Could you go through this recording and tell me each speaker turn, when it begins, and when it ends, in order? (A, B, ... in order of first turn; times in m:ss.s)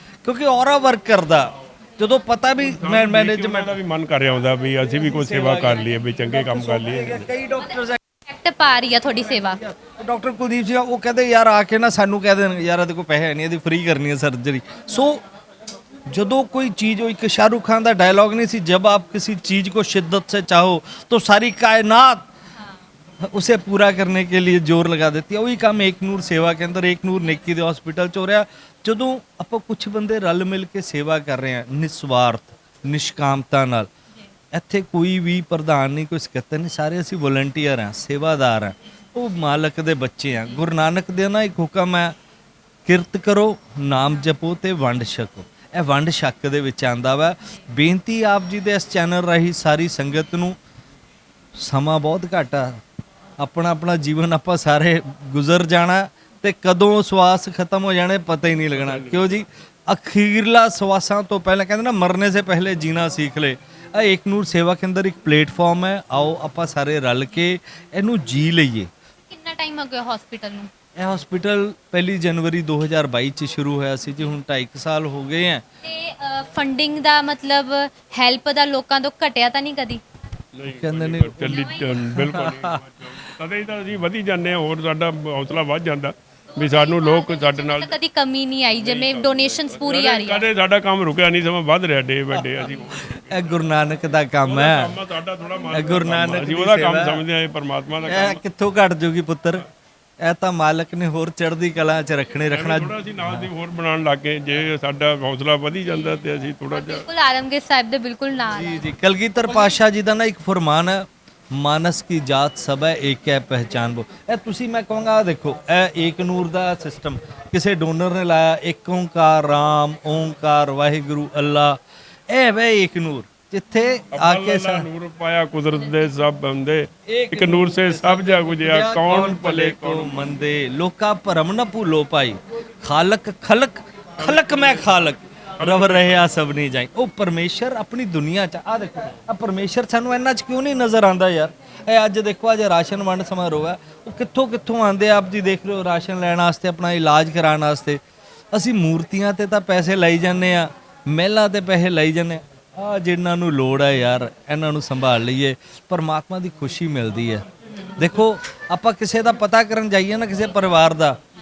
0:00.2-0:03.8 A
0:02.6-0:07.3 B
0:05.0-0:08.0 A
0:08.3-0:09.6 C
0:09.4-0:15.2 A
0:16.1-0:22.3 A
0:23.2-0:33.9 A
0:34.5-0:42.1 A
0:42.9-0:50.6 A
0:51.6-0:52.8 A
0:53.4-1:08.9 A
0:58.7-0:59.3 B
1:09.3-1:10.7 C
1:11.0-1:15.6 A
1:15.8-1:20.0 C
1:20.5-1:28.0 B
1:20.7-1:22.8 A
1:21.4-1:21.9 C
1:26.5-1:30.5 C
1:28.7-1:33.4 B
1:32.3-1:35.0 A
1:34.4-1:38.4 B
1:35.7-1:37.2 A
1:38.1-1:39.6 A
1:40.2-1:43.5 A
1:42.5-1:47.0 B
1:46.7-1:48.8 C
1:48.5-2:01.8 A
2:02.3-2:04.9 A
2:04.2-2:10.3 B
2:07.1-2:28.0 A
2:15.6-2:16.0 B
2:28.5-2:37.4 A
2:38.0-2:41.2 A